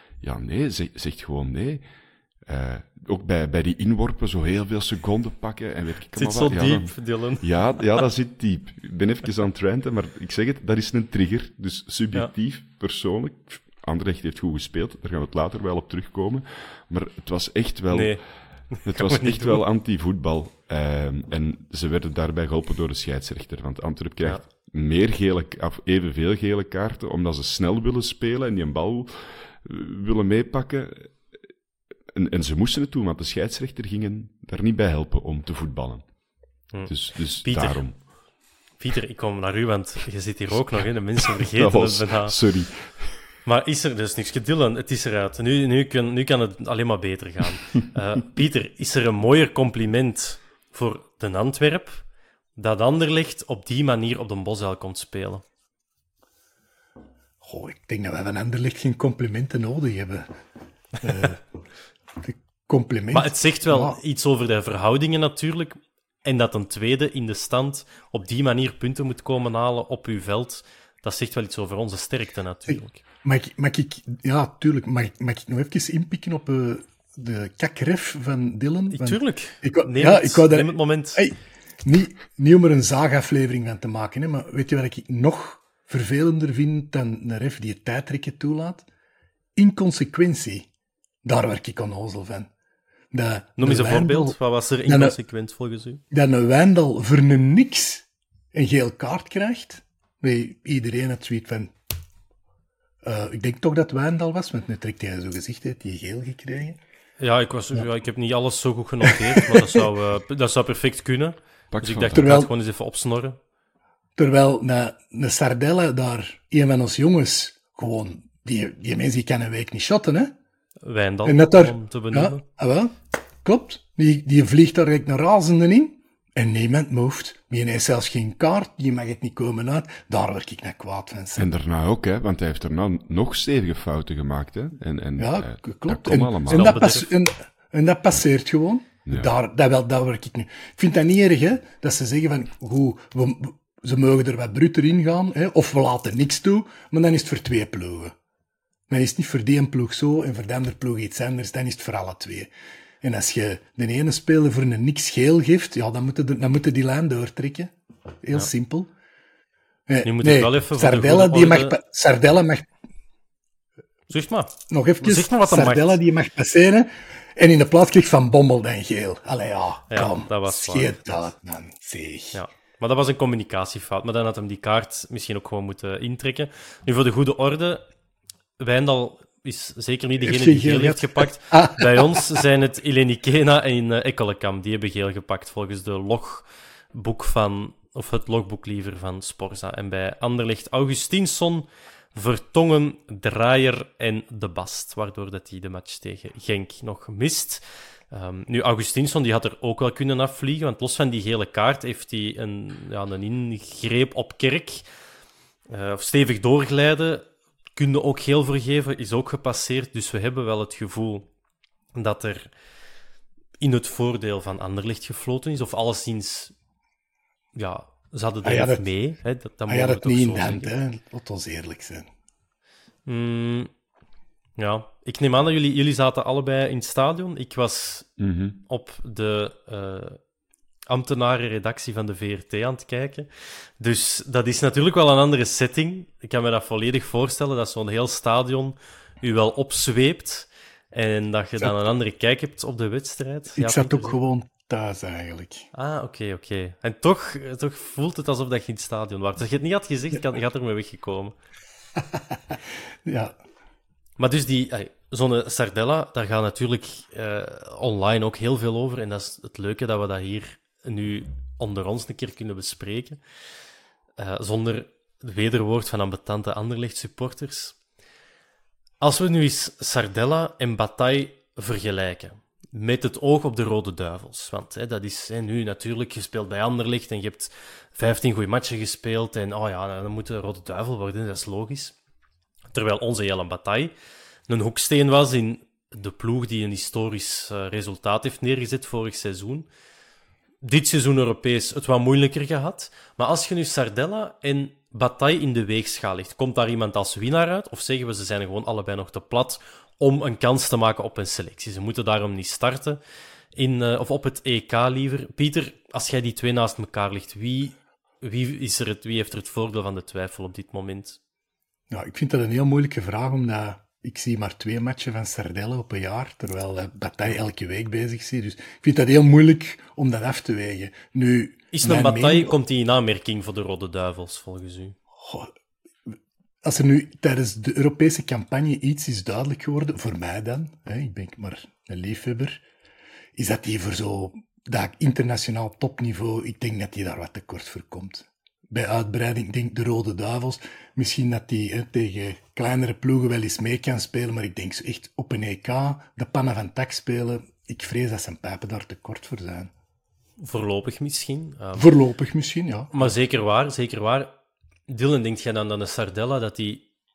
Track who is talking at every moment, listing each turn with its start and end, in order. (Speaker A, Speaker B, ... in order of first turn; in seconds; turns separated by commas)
Speaker A: 0.2-1.8, Speaker A: 2.5-18.2, Speaker B: 6.1-7.4, Speaker B: 17.9-18.2, Speaker B: 18.7-19.6, Speaker A: 18.8-31.2, Speaker A: 32.1-36.1, Speaker B: 36.7-38.1, Speaker A: 36.8-38.1, Speaker B: 38.8-42.3, Speaker A: 41.3-43.2, Speaker B: 43.4-52.0, Speaker B: 52.6-55.4, Speaker C: 57.4-60.3, Speaker C: 61.0-61.4, Speaker C: 62.2-64.0, Speaker B: 63.1-73.0, Speaker C: 72.7-88.9, Speaker B: 78.9-81.2, Speaker C: 89.6-90.7, Speaker C: 91.2-92.5, Speaker C: 93.1-95.2, Speaker B: 93.6-96.0, Speaker C: 96.1-101.7, Speaker C: 103.0-106.8, Speaker B: 107.2-113.4, Speaker C: 109.0-109.8, Speaker A: 111.7-112.3, Speaker C: 112.1-112.5, Speaker C: 114.2-120.3, Speaker B: 120.8-122.4, Speaker C: 121.2-131.5, Speaker A: 131.4-136.9, Speaker C: 135.2-148.1, Speaker B: 136.5-137.1, Speaker A: 139.1-139.3, Speaker C: 148.9-158.9, Speaker C: 159.9-162.7, Speaker B: 160.0-161.8, Speaker B: 164.1-166.0, Speaker C: 164.7-172.4, Speaker B: 169.9-171.3, Speaker B: 172.3-177.9, Speaker B: 178.6-204.8, Speaker C: 180.2-182.3, Speaker B: 205.7-211.3, Speaker B: 211.9-212.5, Speaker B: 213.6-216.5, Speaker B: 217.5-220.7, Speaker C: 218.4-218.9, Speaker C: 219.7-222.1, Speaker B: 223.1-223.7, Speaker B: 224.6-228.1, Speaker A: 228.2-228.6, Speaker B: 228.7-230.2, Speaker B: 230.9-244.2, Speaker C: 243.5-245.7, Speaker B: 245.7-251.4, Speaker C: 253.1-253.4, Speaker B: 254.2-263.2, Speaker B: 264.2-267.8, Speaker B: 269.0-281.9, Speaker B: 282.7-283.9, Speaker B: 284.5-289.7, Speaker B: 290.6-303.0, Speaker B: 303.5-311.2, Speaker C: 311.9-322.5, Speaker B: 321.7-325.0, Speaker C: 325.2-325.5, Speaker C: 326.6-332.6, Speaker C: 333.4-349.7, Speaker B: 350.4-351.9, Speaker C: 351.8-353.1, Speaker B: 352.9-354.4, Speaker B: 354.9-356.9